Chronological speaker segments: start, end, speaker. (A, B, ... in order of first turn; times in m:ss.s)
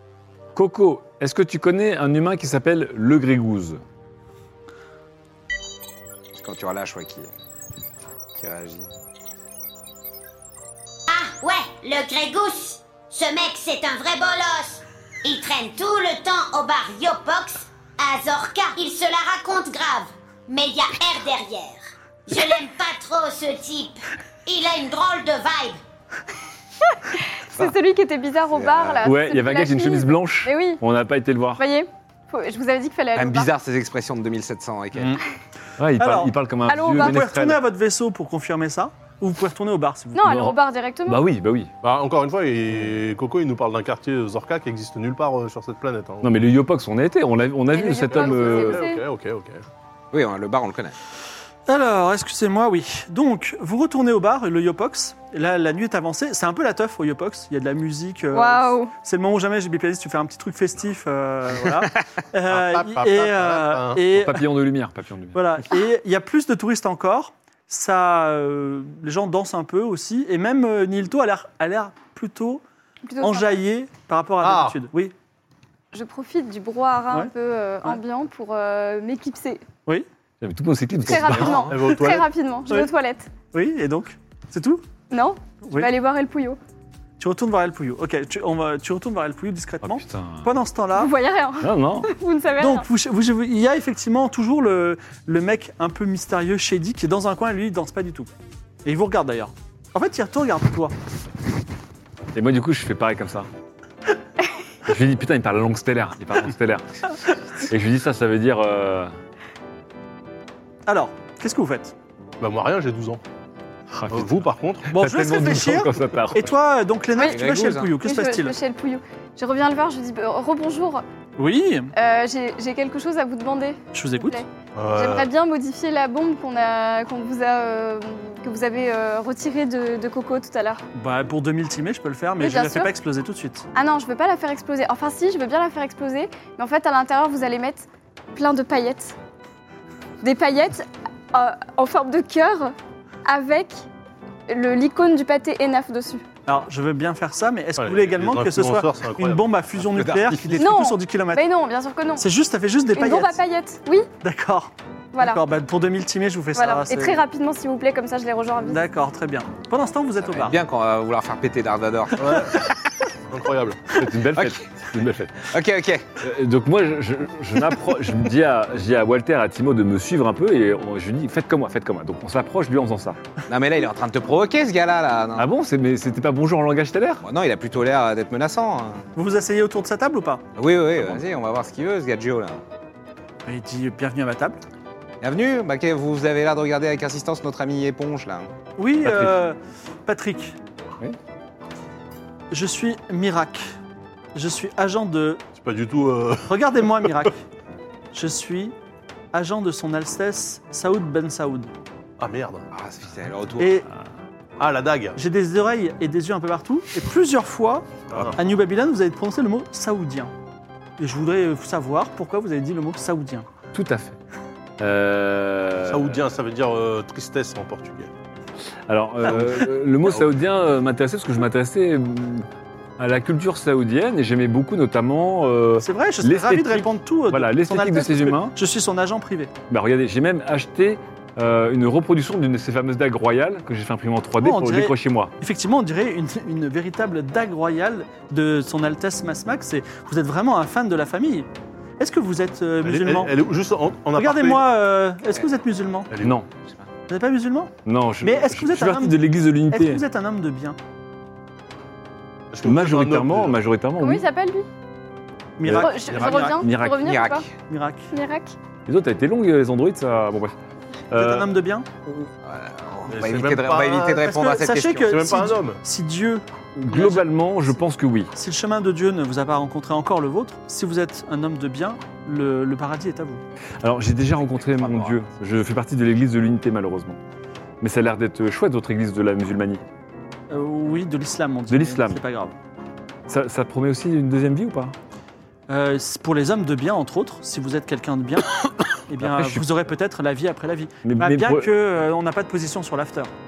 0:00.5-0:03.8 A
0:06.3-0:07.3 B
0:08.4-0:08.9 B
0:11.1-0:25.8 C
0:26.9-0:30.8 D
0:28.5-0:29.0 B
0:29.0-0:31.6 A
0:31.6-0:33.5 D
0:33.1-0:35.2 B
0:35.8-0:37.6 A
0:36.0-0:36.3 E
0:36.7-0:37.2 D
0:36.9-0:40.3 E
0:40.1-0:41.2 D
0:40.3-0:41.7 A
0:41.8-0:46.3 F
0:46.2-0:48.8 A
0:47.7-0:49.0 D
0:48.0-0:49.6 F
0:50.1-0:51.0 B
0:51.7-1:04.5 E
0:58.3-0:58.9 D
1:02.5-1:04.0 F
1:04.1-1:05.4 A
1:05.3-1:12.6 E
1:13.0-1:13.6 D
1:13.2-1:15.1 E
1:14.4-1:14.8 F
1:15.9-1:19.6 D
1:20.4-1:21.7 A
1:21.0-1:23.3 D
1:21.2-1:22.3 F
1:23.5-1:24.8 E
1:25.1-1:26.6 D
1:25.6-1:25.9 E
1:27.2-1:31.1 E
1:29.8-1:30.5 A
1:31.0-1:32.9 D
1:31.6-1:32.1 A
1:32.6-1:38.3 E
1:38.8-1:40.9 E
1:42.3-1:43.5 A
1:44.8-1:46.8 A
1:47.6-1:49.1 A
1:50.8-1:51.9 E
1:52.4-1:53.2 F
1:53.9-1:56.5 A
1:54.1-1:54.9 F
1:54.9-1:58.5 E
1:57.2-1:57.9 B
1:58.0-2:01.0 D
2:01.4-2:01.9 E
2:01.9-2:10.8 D
2:03.9-2:04.4 E
2:04.7-2:05.3 F
2:10.9-2:13.6 E
2:12.4-2:12.9 D
2:13.7-2:19.1 D
2:20.2-2:23.8 D
2:24.5-2:26.2 D
2:26.5-2:31.4 E
2:27.8-2:29.4 F
2:29.8-2:30.7 B
2:30.6-2:32.2 D
2:32.2-2:33.4 E
2:33.0-2:34.1 D
2:34.2-2:37.2 E
2:35.1-2:35.4 D
2:36.5-2:38.8 D
2:38.6-2:40.6 E
2:40.2-2:42.5 B
2:42.2-2:42.6 F
2:43.3-2:43.9 F
2:43.9-2:45.5 A
2:44.3-2:44.6 B
2:45.5-2:46.2 B
2:46.2-2:53.2 A
2:53.5-2:55.5 B
2:55.4-2:57.2 A
2:57.2-2:59.0 B
2:59.2-3:00.4 E
3:00.6-3:02.6 B
3:03.4-3:04.6 E
3:05.2-3:08.5 B
3:08.8-3:10.6 E
3:09.0-3:09.3 A
3:12.5-3:13.7 E
3:14.3-3:15.4 E
3:15.5-3:16.5 F
3:16.5-3:17.4 E
3:18.1-3:18.7 E
3:19.3-3:21.7 E
3:22.2-3:22.6 F
3:22.7-3:23.8 B
3:23.6-3:23.9 E
3:24.6-3:25.2 F
3:25.1-3:30.3 E
3:28.1-3:28.4 F
3:31.0-3:33.5 E
3:33.7-3:34.2 A
3:34.8-3:36.2 A
3:35.8-3:38.1 F
3:38.9-3:42.5 A
3:43.0-3:48.5 A
3:45.8-3:49.5 E
3:49.7-3:55.3 A
3:54.4-4:01.5 E
4:02.0-4:03.3 E
4:02.8-4:04.7 F
4:04.1-4:06.1 E
4:06.1-4:06.4 F
4:06.2-4:06.5 A
4:07.1-4:10.8 E
4:07.8-4:10.0 A
4:12.5-4:13.6 F
4:12.6-4:14.2 A
4:14.0-4:14.6 D
4:15.6-4:16.7 E
4:15.6-4:17.2 A
4:15.7-4:17.4 D
4:16.9-4:17.5 B
4:17.7-4:18.1 E
4:18.1-4:18.5 D
4:18.8-4:20.5 A
4:21.1-4:21.5 A
4:21.1-4:21.9 E
4:22.4-4:25.1 B
4:23.1-4:24.2 F
4:24.2-4:27.3 E
4:25.1-4:25.8 F
4:26.8-4:28.3 A
4:28.3-4:33.4 E
4:33.8-4:37.2 A
4:34.4-4:35.2 B
4:37.8-4:39.8 A
4:40.5-4:42.5 E
4:41.7-4:42.2 A
4:43.3-4:44.9 A
4:45.7-4:48.5 E
4:49.1-4:53.3 E
4:49.2-4:49.7 A
4:51.0-4:51.7 A